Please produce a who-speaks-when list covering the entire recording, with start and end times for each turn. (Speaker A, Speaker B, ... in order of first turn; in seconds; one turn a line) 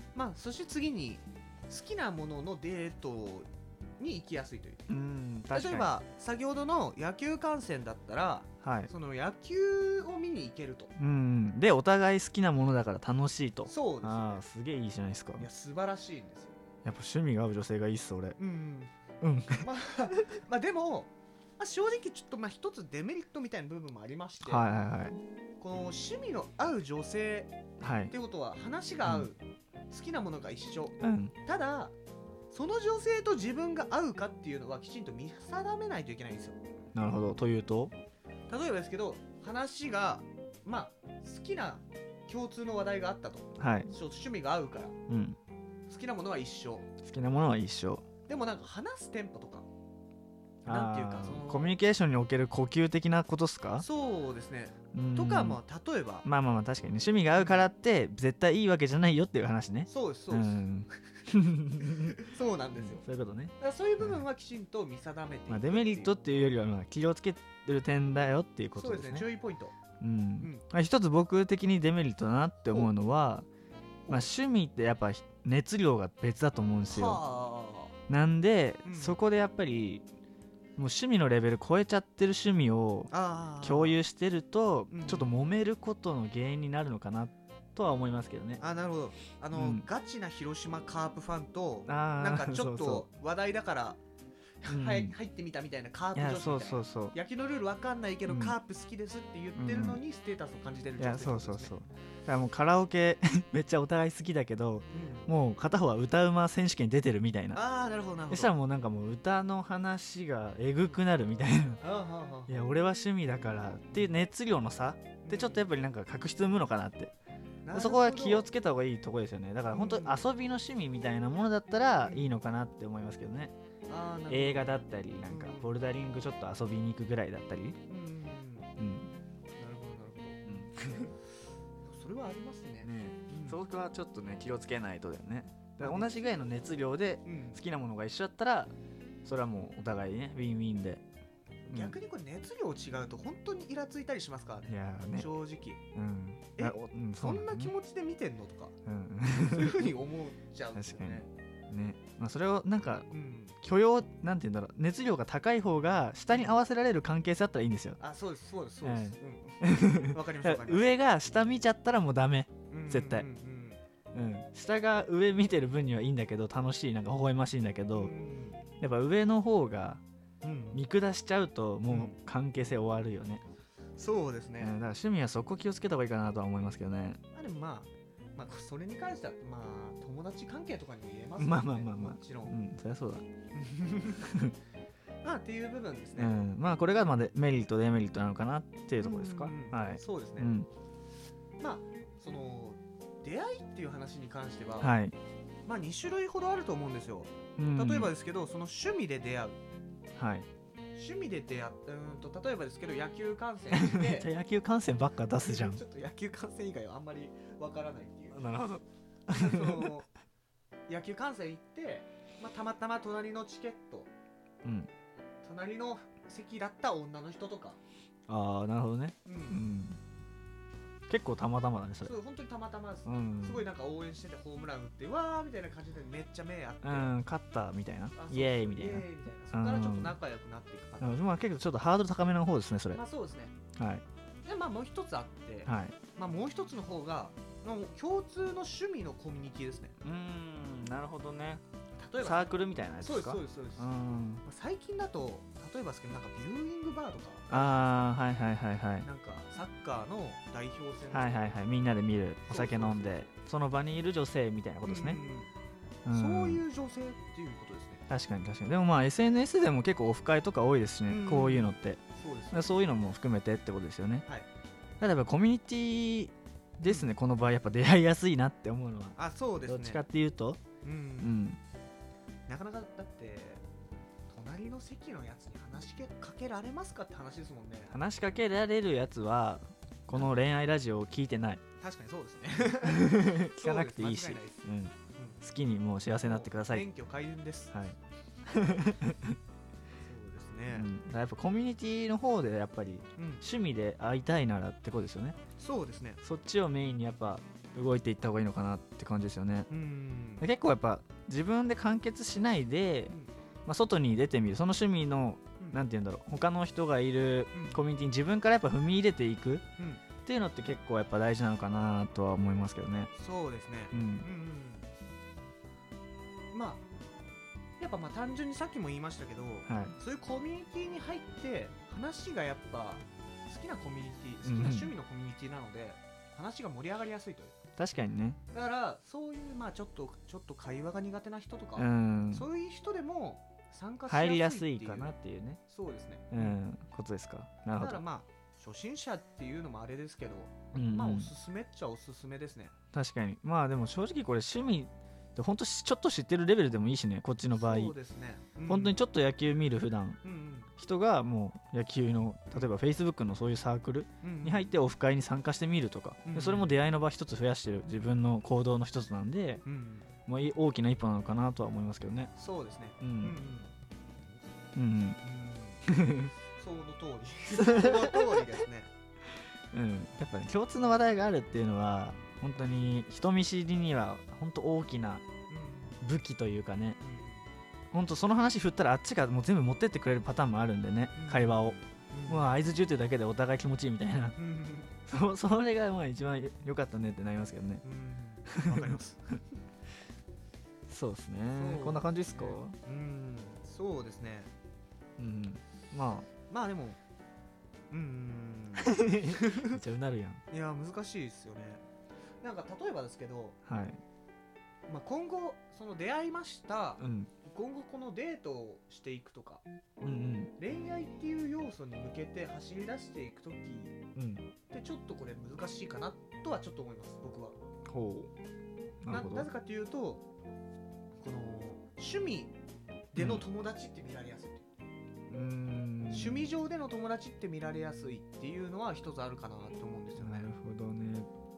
Speaker A: 0.1-4.8
Speaker B: 4.9-5.9
Speaker A: 5.5-10.9
Speaker B: 8.6-8.9
Speaker B: 11.0-15.5
Speaker A: 13.7-14.4
Speaker A: 15.4-16.5
Speaker B: 16.8-18.4
Speaker A: 18.4-18.9
Speaker B: 19.2-19.7
Speaker A: 19.6-24.7
Speaker B: 24.4-25.2
Speaker A: 25.6-27.5
Speaker B: 27.8-28.1
Speaker A: 28.1-29.4
Speaker A: 29.9-31.9
Speaker B: 31.0-31.3
Speaker A: 32.5-36.6
Speaker B: 36.9-37.9
Speaker A: 38.5-45.0
Speaker B: 43.6-43.9
Speaker B: 45.1-45.4
Speaker A: 45.9-46.9
Speaker B: 47.0-48.1
Speaker A: 48.2-49.7
Speaker B: 50.6-53.9
Speaker A: 50.6-51.8
Speaker A: 53.8-56.2
Speaker B: 54.9-55.6
Speaker B: 56.2-62.2
Speaker A: 57.3-57.7
Speaker A: 59.9-60.6
Speaker A: 61.8-63.0
Speaker B: 62.7-64.2
Speaker A: 63.6-66.1
Speaker B: 65.5-69.3
Speaker A: 68.7-69.7
Speaker B: 70.0-73.5
Speaker A: 70.4-70.6
Speaker A: 72.7-72.9
Speaker A: 74.0-74.3
Speaker B: 74.1-77.2
Speaker A: 76.9-77.9
Speaker B: 78.1-80.0
Speaker A: 78.8-79.2
Speaker B: 80.8-88.6
Speaker A: 83.1-84.0
Speaker A: 84.9-85.3
Speaker A: 88.6-94.0
Speaker B: 89.5-89.9
Speaker B: 91.8-93.0
Speaker A: 94.6-101.7
Speaker B: 94.7-95.2
Speaker B: 96.1-97.2
Speaker B: 98.3-98.6
Speaker B: 99.6-100.0
Speaker B: 101.0-107.6
Speaker A: 104.9-105.3
Speaker A: 107.5-108.5
Speaker B: 108.3-111.8
Speaker A: 111.8-112.6
Speaker B: 112.5-117.1
Speaker A: 115.2-115.7
Speaker A: 117.6-118.5
Speaker B: 117.7-123.5
Speaker A: 119.7-120.2
Speaker A: 123.9-125.8
Speaker B: 124.3-127.8
Speaker A: 127.9-128.7
Speaker B: 128.8-129.1
Speaker A: 129.6-130.4
Speaker B: 130.4-131.1
Speaker A: 131.8-133.6
Speaker B: 132.8-138.7
Speaker A: 135.8-136.4
Speaker A: 137.2-137.6
Speaker B: 139.2-141.0
Speaker A: 141.6-145.8
Speaker B: 141.7-142.0
Speaker B: 144.7-145.4
Speaker B: 145.9-147.7
Speaker A: 146.5-148.7
Speaker B: 148.8-150.0
Speaker A: 149.3-151.3
Speaker B: 150.8-158.0
Speaker A: 153.1-153.6
Speaker A: 156.3-156.6
Speaker A: 158.0-160.9
Speaker B: 158.8-163.3
Speaker A: 162.7-163.8
Speaker B: 164.1-168.1
Speaker A: 167.9-168.6
Speaker B: 168.8-170.0
Speaker A: 170.4-170.8
Speaker B: 170.7-173.4
Speaker A: 171.9-172.2
Speaker A: 174.0-174.7
Speaker B: 174.6-177.2
Speaker A: 177.3-182.6
Speaker B: 181.4-183.2
Speaker A: 183.5-184.3
Speaker B: 184.2-184.5
Speaker A: 185.2-186.4
Speaker B: 186.2-190.7
Speaker A: 189.0-190.5
Speaker A: 191.6-195.0
Speaker B: 194.8-195.2
Speaker A: 195.7-199.6
Speaker B: 197.6-198.1
Speaker B: 200.1-200.5
Speaker A: 200.9-204.3
Speaker B: 203.7-205.8
Speaker A: 205.4-208.5
Speaker B: 208.3-210.0
Speaker A: 209.3-210.1
Speaker A: 210.9-214.1
Speaker B: 214.6-214.9
Speaker A: 215.4-217.8
Speaker B: 218.3-220.0
Speaker A: 219.2-219.6
Speaker B: 221.1-222.2
Speaker A: 222.0-227.1
Speaker B: 223.0-223.6
Speaker B: 226.8-230.2
Speaker A: 228.1-231.2
Speaker B: 231.0-233.0
Speaker A: 232.9-233.5
Speaker B: 233.8-234.0
Speaker A: 234.4-239.9
Speaker B: 235.7-236.0
Speaker B: 240.0-241.6
Speaker A: 241.9-243.9
Speaker B: 242.2-244.4
Speaker A: 244.4-247.9
Speaker B: 247.5-249.1
Speaker A: 249.0-251.4
Speaker B: 251.1-255.2
Speaker A: 252.5-253.3
Speaker A: 254.8-255.5
Speaker B: 256.0-256.6
Speaker A: 256.1-258.0
Speaker B: 258.1-264.2
Speaker A: 261.1-262.7
Speaker B: 265.0-270.6
Speaker A: 266.8-267.1
Speaker A: 269.1-270.0
Speaker A: 270.8-271.4
Speaker B: 271.2-271.6
Speaker A: 272.5-273.6
Speaker A: 274.3-278.0
Speaker B: 277.9-281.6
Speaker A: 280.1-280.4
Speaker A: 281.8-285.4
Speaker B: 282.8-286.9
Speaker A: 286.2-287.8
Speaker B: 287.7-289.4
Speaker A: 290.0-290.9
Speaker B: 290.7-295.4
Speaker A: 293.2-293.4
Speaker A: 295.6-296.2
Speaker B: 296.2-299.7
Speaker A: 299.7-300.5
Speaker B: 300.4-309.6
Speaker A: 307.5-307.8
Speaker A: 309.8-310.0
Speaker B: 310.2-313.1
Speaker A: 313.1-314.9
Speaker B: 313.9-314.3
Speaker A: 316.5-316.8
Speaker A: 317.8-327.5
Speaker B: 319.6-319.9
Speaker B: 324.4-324.9
Speaker B: 327.8-328.4
Speaker A: 328.5-335.1
Speaker B: 331.8-332.5
Speaker B: 334.1-335.6
Speaker A: 335.7-336.6
Speaker B: 336.3-338.0
Speaker A: 337.7-342.7
Speaker B: 340.7-341.3
Speaker B: 342.9-347.9
Speaker A: 347.5-349.0
Speaker B: 348.7-350.2
Speaker A: 350.2-350.7
Speaker B: 350.8-359.6
Speaker A: 354.2-354.6
Speaker A: 356.2-356.7
Speaker A: 359.6-360.1
Speaker B: 360.3-362.3
Speaker A: 362.4-364.5
Speaker B: 363.0-363.4
Speaker B: 364.7-365.2
Speaker A: 365.2-365.9
Speaker B: 365.9-366.3
Speaker A: 366.5-368.9
Speaker B: 367.5-368.4
Speaker B: 369.7-375.2
Speaker A: 375.5-376.0
Speaker B: 376.0-377.0
Speaker A: 377.0-377.5
Speaker B: 377.9-384.4
Speaker A: 381.1-382.5
Speaker A: 384.4-384.9
Speaker B: 385.1-387.8
Speaker A: 387.8-389.3
Speaker B: 388.5-388.9
Speaker B: 390.9-392.8
Speaker A: 391.5-394.5
Speaker B: 395.2-396.3
Speaker A: 396.5-397.0
Speaker A: 397.9-399.8
Speaker B: 398.8-400.4
Speaker A: 400.5-401.8
Speaker A: 402.4-403.6
Speaker B: 403.6-404.0
Speaker A: 404.9-409.6
Speaker B: 407.0-407.3
Speaker B: 410.0-410.5
Speaker A: 410.6-414.0
Speaker B: 414.1-414.4
Speaker A: 414.7-417.6
Speaker B: 417.9-418.3
Speaker B: 419.0-419.5
Speaker A: 419.1-420.2
Speaker A: 421.2-422.5
Speaker A: 423.1-424.6
Speaker B: 423.1-423.4
Speaker B: 425.3-426.5
Speaker A: 426.1-430.5
Speaker B: 430.2-431.3